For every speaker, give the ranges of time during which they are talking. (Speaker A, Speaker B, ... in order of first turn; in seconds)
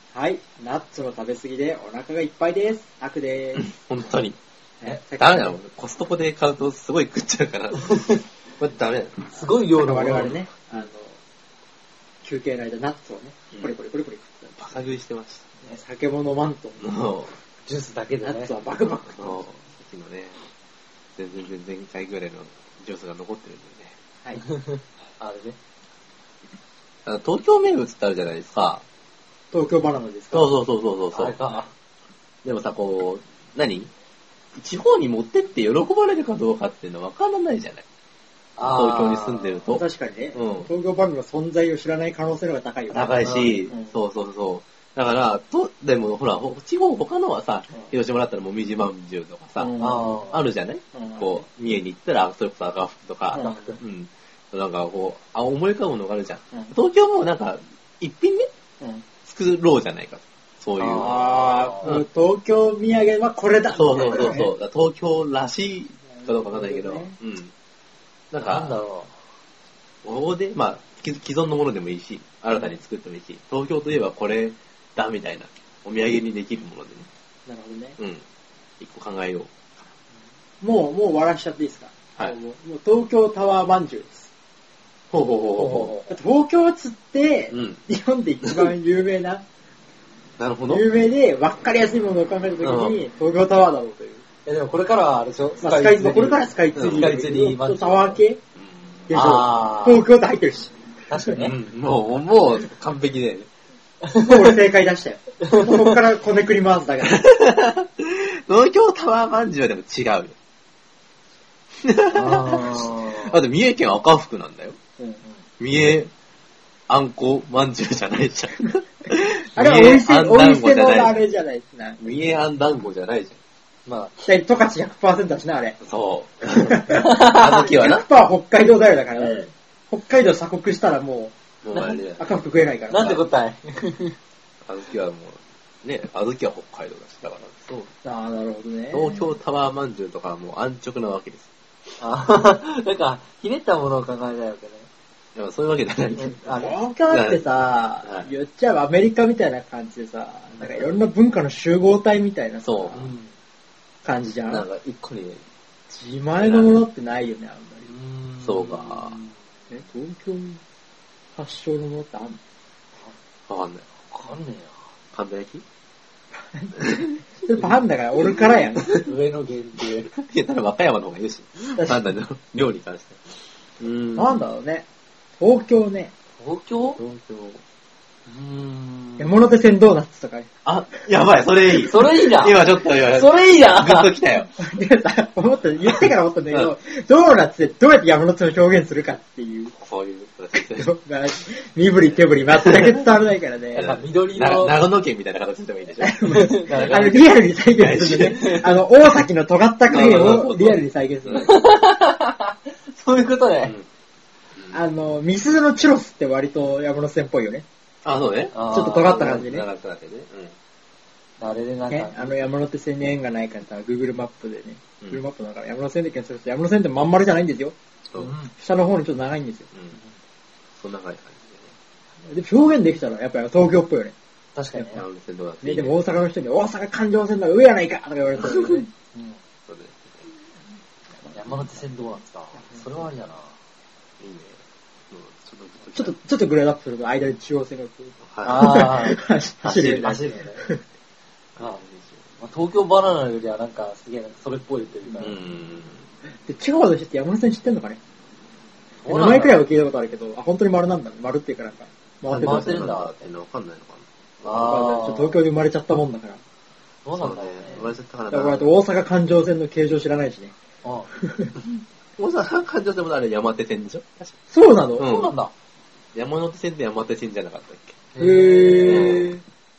Speaker A: 0.1-3.7, 4.8-5.6, 9.6-11.2, 12.2-14.8, 15.6-16.8, 18.2-19.5, 29.5-30.5, 39.6-43.9, 49.5-50.2, 50.9-51.5, 53.3-53.8, 60.9-64.5, 66.1-67.2, 77.5-78.0, 80.6-84.3, 86.1-89.4, 90.7-94.2, 95.6-98.4, 99.1-101.5, 104.1-107.2, 119.5-122.0, 124.2-125.8, 126.5-131.3, 132.2-133.2, 138.0-139.3, 146.2-153.1, 154.0-154.7, 155.9-157.9, 159.7-160.6, 161.3-162.4, 166.3-169.1, 171.7-172.0, 174.2-174.8, 175.4-176.1, 179.2-181.0, 184.6-189.7, 190.5-193.9, 196.0-201.6, 204.7-207.6, 208.6-209.7, 211.9-217.7, 218.5-219.7, 222.2-224.1, 225.6-228.9, 235.9-240.8, 246.2-248.0, 249.1-252.9, 254.5-256.4, 258.3-260.5, 261.1-261.5, 264.5-265.2, 268.2-269.4
Speaker B: 3.6-4.4, 5.1-9.3, 14.6-15.4, 16.8-17.3, 19.1-20.4, 21.2-24.0, 27.0-28.8, 30.3-31.4, 32.4-33.9, 34.5-37.8, 38.6-40.7, 42.9-49.7, 50.3-58.5, 59.2-62.0, 63.7-67.5, 68.3-68.8, 70.0-77.1, 78.0-78.2, 78.8-79.6, 85.1-85.9, 87.5-87.8, 90.4-90.8, 92.6-93.0, 96.8-97.1, 98.7-99.1, 101.4-103.5, 107.0-110.3, 111.8-114.8, 115.6-116.1, 116.9-121.2, 122.0-123.4, 125.8-128.0, 131.6-132.3, 134.6-137.9, 138.9-141.5, 145.3-147.5, 148.0-148.3, 152.6-153.1, 154.5-155.4, 156.4-156.8, 158.4-159.2, 163.5-163.8, 165.1-165.6, 170.0-174.4, 176.9-177.6, 180.6-184.5, 189.7-190.9, 192.1-192.9, 193.8-198.8, 199.9-201.5, 208.0-210.6, 220.8-221.7, 224.9-226.0, 229.7-230.3, 234.2-236.2, 238.2-238.8, 239.6-240.2, 241.6-242.4, 245.2-246.1, 252.3-254.5, 257.1-258.7, 262.2-264.4, 265.0-265.3, 266.1-268.1, 268.9-269.3
Speaker C: 9.3-10.4, 17.6-18.5, 24.6-25.6, 31.1-31.7, 38.5-39.6, 49.8-50.5, 53.3-53.8, 60.8-62.0, 63.9-64.4, 68.4-69.2, 85.5-86.1, 94.5-98.2, 99.1-100.0, 101.1-101.5, 112.1-113.4, 123.8-124.2, 126.9-127.7, 129.2-129.5, 131.7-132.0, 132.9-134.2, 142.0-144.9, 146.3-146.8, 152.9-153.3, 157.8-159.3, 163.9-164.9, 168.8-170.1, 176.4-177.0, 178.2-179.4, 181.8-184.2, 193.7-194.8, 196.3-197.2, 201.3-203.8, 208.5-209.2, 211.4-212.4, 218.1-218.5, 224.5-225.1, 229.1-229.4, 231.3-233.6, 238.4-240.6, 241.6-241.8, 242.4-245.4, 249.0-249.6, 252.3-253.2, 254.4-255.4, 257.0-257.9, 260.8-261.1, 265.0-265.5, 268.1-269.4